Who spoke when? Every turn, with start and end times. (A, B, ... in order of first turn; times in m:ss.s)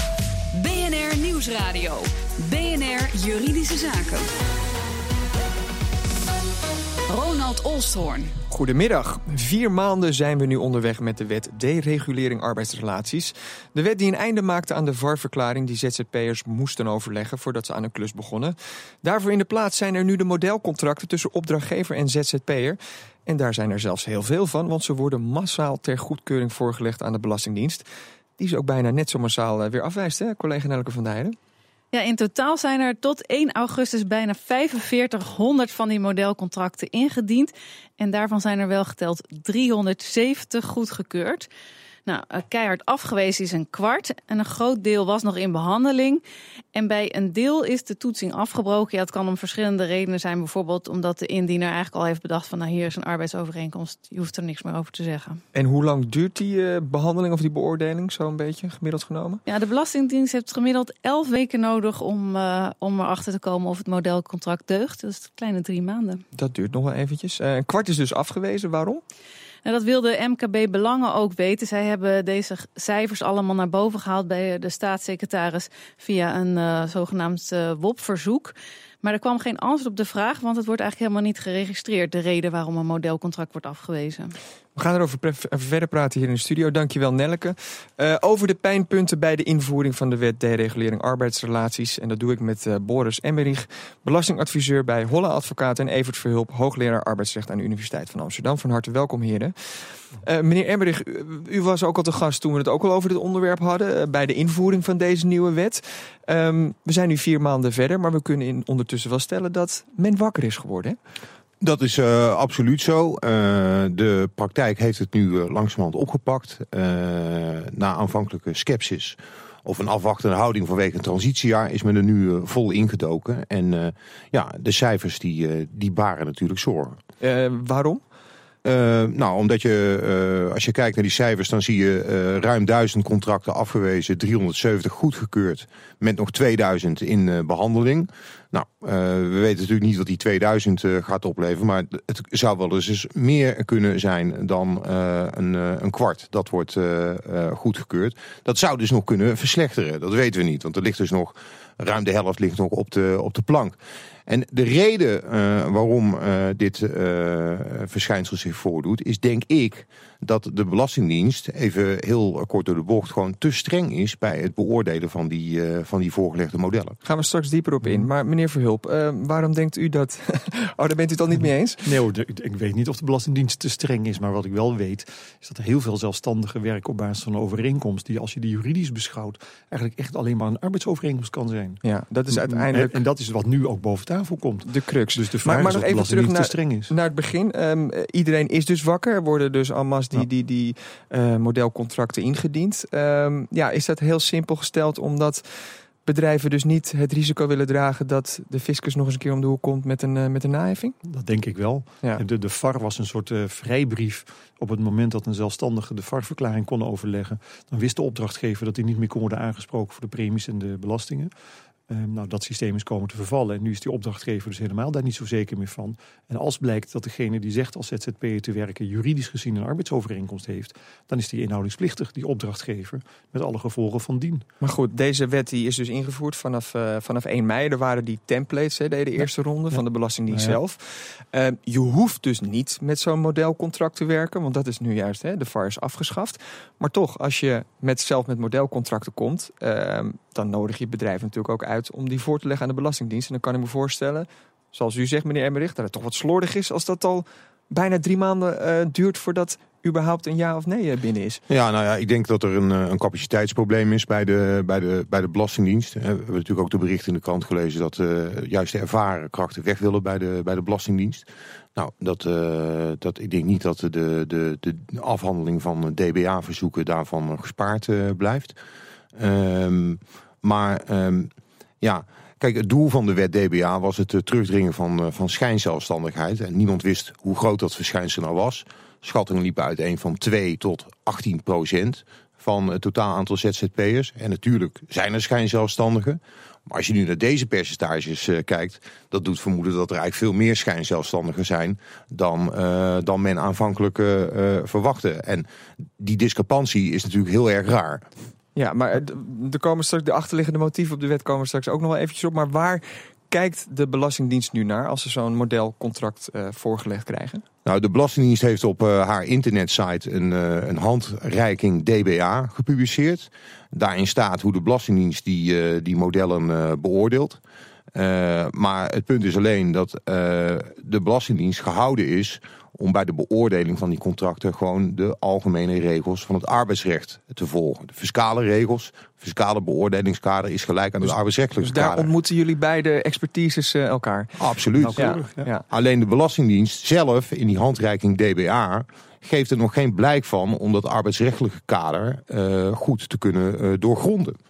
0:00.5-0:04.3 A
0:07.1-0:08.4 A
0:08.5-0:27.8 B
0:28.4-0:31.4 B
0:31.9-0:41.5 C
0:42.0-0:46.2 C
0:46.7-0:55.4 C
0:55.5-0:59.4 B
0:59.5-1:06.2 C
1:06.3-1:09.0 B
1:09.6-1:24.3 C
1:24.8-1:51.0 B
1:51.6-2:07.0 D
2:07.2-2:08.0 B
2:08.6-2:47.0 D
2:47.0-2:51.9 B
2:47.8-2:48.1 E
2:51.4-3:06.9 E
3:01.8-3:03.0 B
3:04.6-3:21.0 B
3:21.0-3:31.3 E
3:31.9-3:44.4 E
3:44.6-4:11.4 B
3:49.7-3:50.6 E
4:11.5-4:28.6 D
4:29.1-4:55.5 D
4:56.0-4:58.1 D
4:58.6-5:07.4 B
5:07.6-5:17.4 D
5:17.9-5:32.1 D
5:31.0-5:34.4 B
5:34.4-5:35.2 D
5:34.7-5:35.5 E
5:35.0-5:35.6 B
5:35.7-5:44.4 D